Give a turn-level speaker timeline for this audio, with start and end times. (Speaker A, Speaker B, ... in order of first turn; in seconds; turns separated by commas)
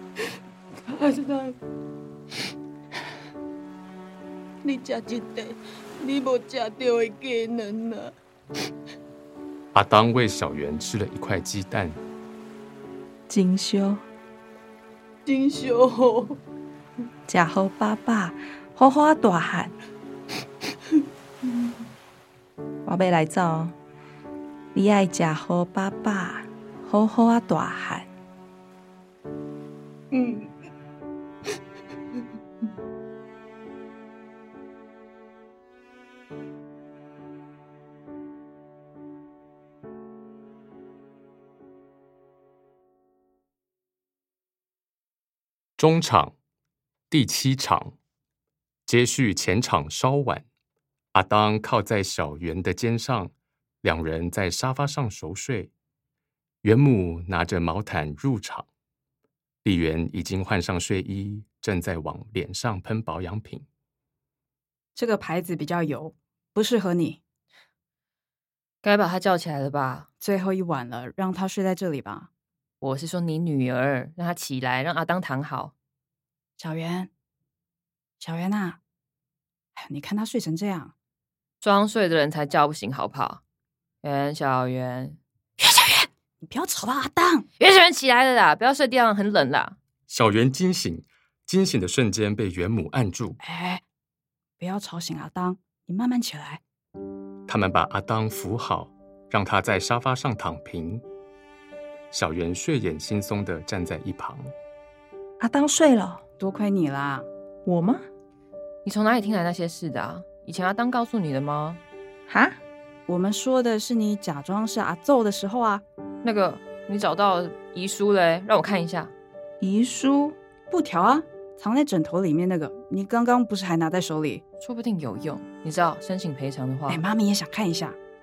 Speaker A: 0.8-1.6, Speaker A: 4.6-8.1, Speaker B: 9.7-12.0, Speaker C: 13.3-14.0, Speaker A: 15.2-16.4, Speaker C: 17.3-19.7, Speaker A: 21.5-21.7, Speaker C: 22.8-23.7, Speaker C: 24.7-28.1, Speaker A: 30.1-30.5, Speaker B: 45.8-46.3, Speaker B: 47.1-48.0, Speaker B: 48.9-50.5, Speaker B: 51.1-55.7, Speaker B: 56.6-58.7, Speaker B: 59.6-63.6, Speaker D: 64.9-67.2, Speaker E: 68.8-70.1, Speaker D: 70.2-72.3, Speaker E: 72.8-75.7, Speaker D: 76.6-77.1, Speaker D: 78.2-78.8, Speaker D: 79.7-80.9, Speaker E: 81.6-83.4, Speaker E: 84.0-85.2, Speaker D: 85.6-87.5, Speaker E: 87.6-89.8, Speaker B: 90.1-93.4, Speaker D: 93.4-93.8, Speaker D: 94.6-96.6, Speaker B: 97.5-101.0, Speaker B: 102.1-104.5, Speaker C: 105.4-106.2, Speaker D: 106.4-107.2, Speaker C: 107.7-108.0, Speaker E: 108.8-111.8, Speaker C: 112.3-112.6, Speaker D: 113.1-115.8, Speaker E: 116.2-119.1, Speaker C: 119.6-120.3, Speaker D: 120.7-124.4, Speaker E: 124.6-127.0, Speaker D: 126.9-128.0